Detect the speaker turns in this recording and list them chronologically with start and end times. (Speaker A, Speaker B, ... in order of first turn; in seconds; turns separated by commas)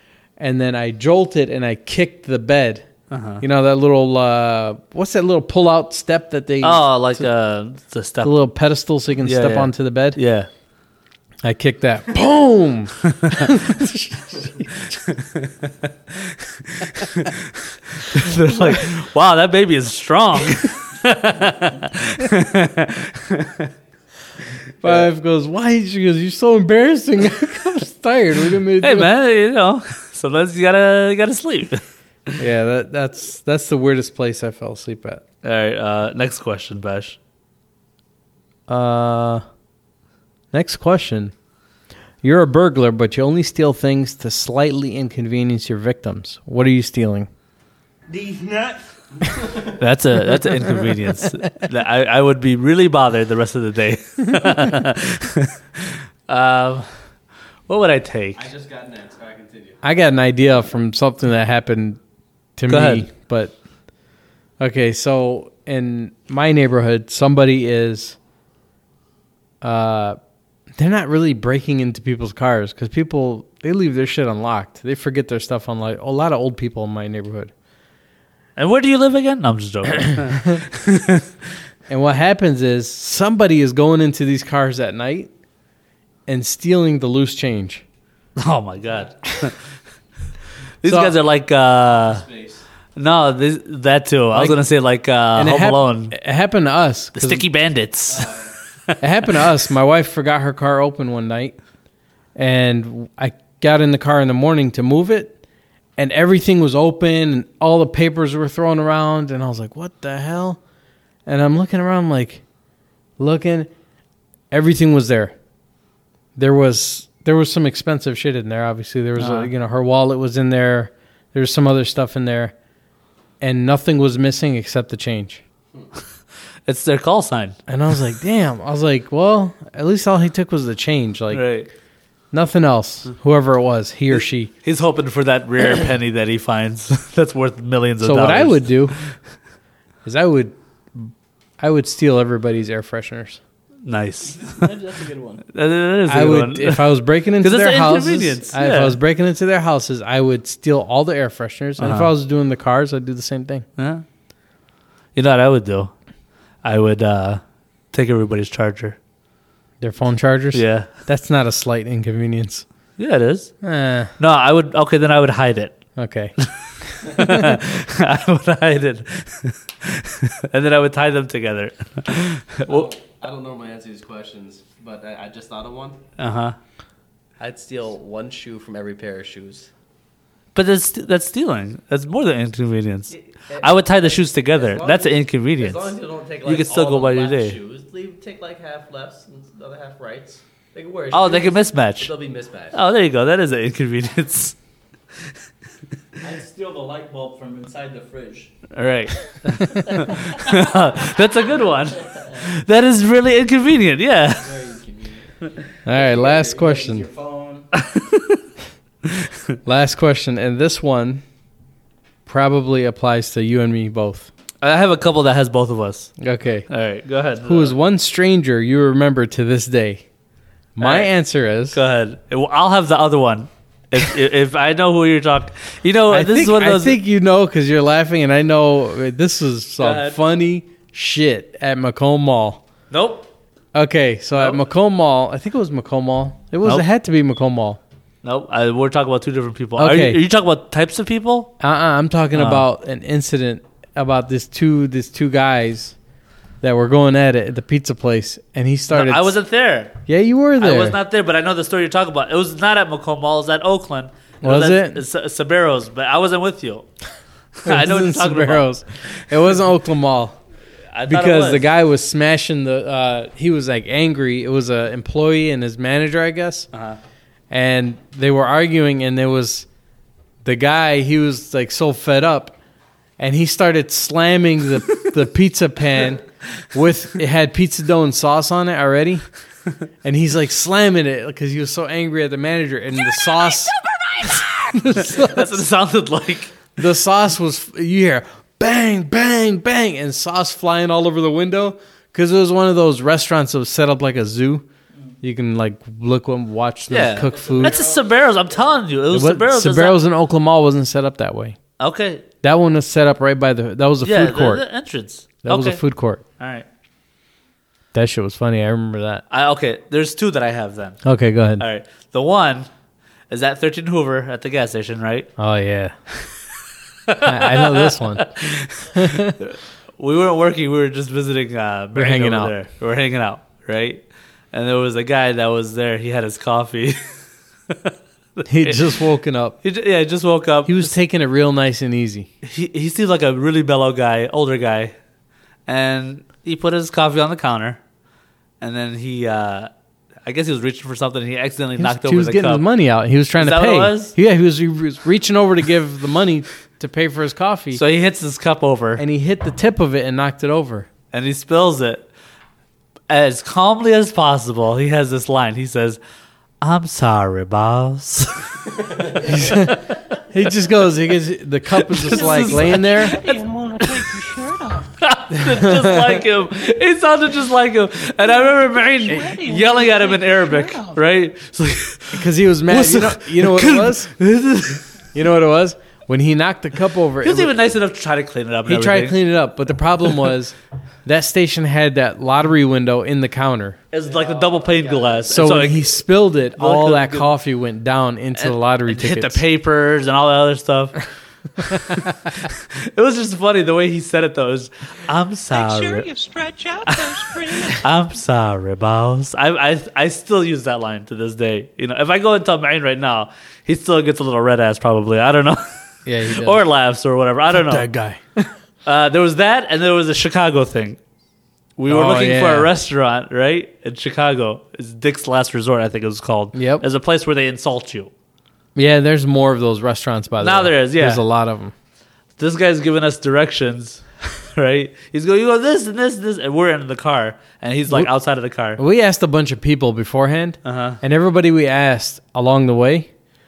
Speaker A: 0.4-2.9, Speaker B: 3.1-3.4, Speaker A: 3.4-7.2, Speaker B: 6.6-8.4, Speaker A: 8.2-10.2, Speaker B: 9.2-10.5, Speaker A: 11.4-14.6, Speaker B: 14.9-23.7, Speaker A: 24.8-29.1, Speaker B: 28.8-31.8, Speaker A: 32.4-35.2, Speaker B: 35.4-37.2, Speaker A: 38.7-39.4, Speaker A: 40.5-41.3, Speaker A: 42.2-47.3, Speaker B: 49.8-56.9, Speaker B: 57.7-58.5, Speaker C: 58.3-59.8, Speaker A: 59.8-62.0, Speaker A: 62.6-63.5, Speaker B: 62.7-63.1, Speaker A: 64.6-68.2, Speaker A: 69.6-70.2, Speaker A: 70.8-77.5, Speaker B: 78.6-81.2, Speaker A: 81.9-85.3, Speaker A: 86.3-87.8, Speaker B: 88.4-89.6, Speaker B: 90.8-92.2, Speaker A: 90.8-91.2, Speaker C: 91.8-92.6, Speaker B: 93.0-96.1, Speaker A: 94.3-94.6, Speaker A: 95.3-97.5, Speaker B: 97.2-98.3, Speaker C: 98.1-98.5, Speaker A: 99.0-101.6, Speaker A: 102.3-105.4, Speaker A: 106.0-110.6, Speaker A: 111.2-112.4, Speaker A: 113.2-113.7, Speaker A: 114.5-115.3, Speaker A: 116.3-122.5, Speaker B: 119.2-119.5, Speaker A: 123.4-125.4, Speaker B: 126.7-127.5, Speaker A: 127.7-131.5, Speaker B: 131.3-131.7, Speaker A: 132.3-134.5, Speaker B: 134.1-139.1, Speaker A: 138.0-138.9, Speaker A: 140.0-143.4, Speaker B: 143.8-144.7, Speaker D: 144.3-145.4, Speaker B: 145.5-148.9, Speaker A: 146.1-153.7, Speaker B: 151.8-152.1, Speaker B: 153.8-154.0, Speaker B: 155.1-155.9, Speaker B: 156.6-157.4, Speaker B: 157.9-159.0, Speaker A: 159.8-162.7, Speaker B: 160.5-160.9, Speaker B: 163.0-163.5, Speaker A: 163.6-164.1, Speaker B: 164.2-165.8, Speaker A: 166.0-166.3, Speaker B: 167.0-172.9, Speaker A: 167.0-167.5, Speaker C: 172.7-176.0, Speaker B: 176.2-176.6, Speaker C: 177.4-179.7, Speaker B: 180.5-187.6, Speaker C: 183.1-192.8, Speaker B: 191.1-192.1, Speaker B: 192.7-194.6, Speaker D: 196.2-198.5, Speaker B: 198.7-204.6, Speaker C: 204.4-205.2, Speaker A: 205.8-207.1, Speaker D: 205.9-207.7, Speaker B: 207.8-208.4, Speaker A: 209.6-211.2, Speaker A: 212.2-214.3, Speaker B: 214.6-216.1, Speaker A: 216.2-216.7, Speaker B: 216.7-217.7, Speaker A: 217.4-220.0, Speaker A: 220.8-221.8, Speaker B: 220.8-221.1, Speaker B: 221.7-227.0, Speaker A: 226.1-232.6, Speaker B: 229.8-230.2, Speaker B: 232.9-233.3, Speaker A: 233.7-237.8, Speaker B: 238.2-241.5, Speaker A: 239.8-240.2, Speaker A: 241.6-245.9, Speaker B: 242.3-242.6, Speaker A: 246.6-249.4, Speaker B: 248.9-250.0, Speaker A: 250.1-251.0, Speaker B: 250.6-256.9, Speaker A: 254.4-255.0, Speaker B: 257.6-258.7, Speaker A: 257.6-260.4, Speaker B: 260.9-261.7, Speaker A: 261.1-266.7, Speaker B: 266.7-267.0, Speaker A: 267.5-269.7, Speaker A: 270.4-272.6, Speaker A: 273.2-279.3, Speaker A: 280.0-285.6, Speaker B: 284.9-286.6, Speaker A: 286.8-294.6, Speaker A: 295.2-297.7, Speaker B: 296.9-300.0, Speaker C: 297.4-298.1, Speaker D: 297.6-297.9, Speaker A: 299.1-301.6, Speaker B: 301.8-302.2, Speaker A: 302.4-304.6, Speaker B: 304.0-305.8, Speaker A: 305.4-306.2, Speaker B: 306.4-306.6, Speaker A: 307.9-309.2, Speaker B: 309.3-311.0, Speaker A: 311.0-311.6, Speaker B: 311.6-312.7, Speaker B: 313.3-315.3, Speaker A: 315.4-315.9, Speaker B: 317.1-324.0, Speaker A: 317.2-318.3, Speaker A: 318.9-319.4, Speaker A: 321.9-322.5, Speaker B: 324.5-327.0, Speaker B: 327.7-328.9, Speaker A: 328.5-329.6, Speaker B: 329.6-330.9, Speaker A: 330.6-332.3, Speaker B: 332.4-334.9, Speaker B: 335.7-337.8, Speaker B: 338.6-339.7, Speaker B: 340.2-342.6, Speaker A: 341.8-347.8, Speaker B: 343.4-344.1, Speaker B: 347.7-349.0, Speaker A: 349.0-350.9, Speaker B: 351.1-352.1, Speaker B: 353.1-356.0, Speaker B: 356.6-358.5, Speaker A: 359.2-363.2, Speaker B: 361.8-364.2, Speaker E: 362.1-364.9, Speaker B: 365.0-374.9, Speaker A: 365.3-366.0, Speaker E: 369.0-371.0, Speaker A: 372.1-374.1, Speaker A: 375.1-377.5, Speaker B: 377.2-379.2, Speaker A: 378.7-380.5, Speaker A: 381.1-383.8, Speaker B: 383.9-386.0, Speaker D: 384.1-385.2, Speaker A: 385.3-389.4, Speaker B: 386.6-387.3, Speaker B: 388.4-391.0, Speaker B: 391.6-396.1, Speaker E: 395.5-397.8, Speaker B: 396.9-405.6, Speaker A: 406.0-406.6, Speaker B: 406.2-407.9, Speaker A: 407.5-408.5, Speaker B: 408.8-411.0, Speaker B: 411.8-418.1, Speaker A: 411.9-412.7, Speaker A: 416.5-416.8, Speaker A: 418.8-421.7, Speaker B: 420.4-421.2, Speaker B: 422.4-428.8, Speaker A: 428.8-433.1, Speaker B: 430.6-431.0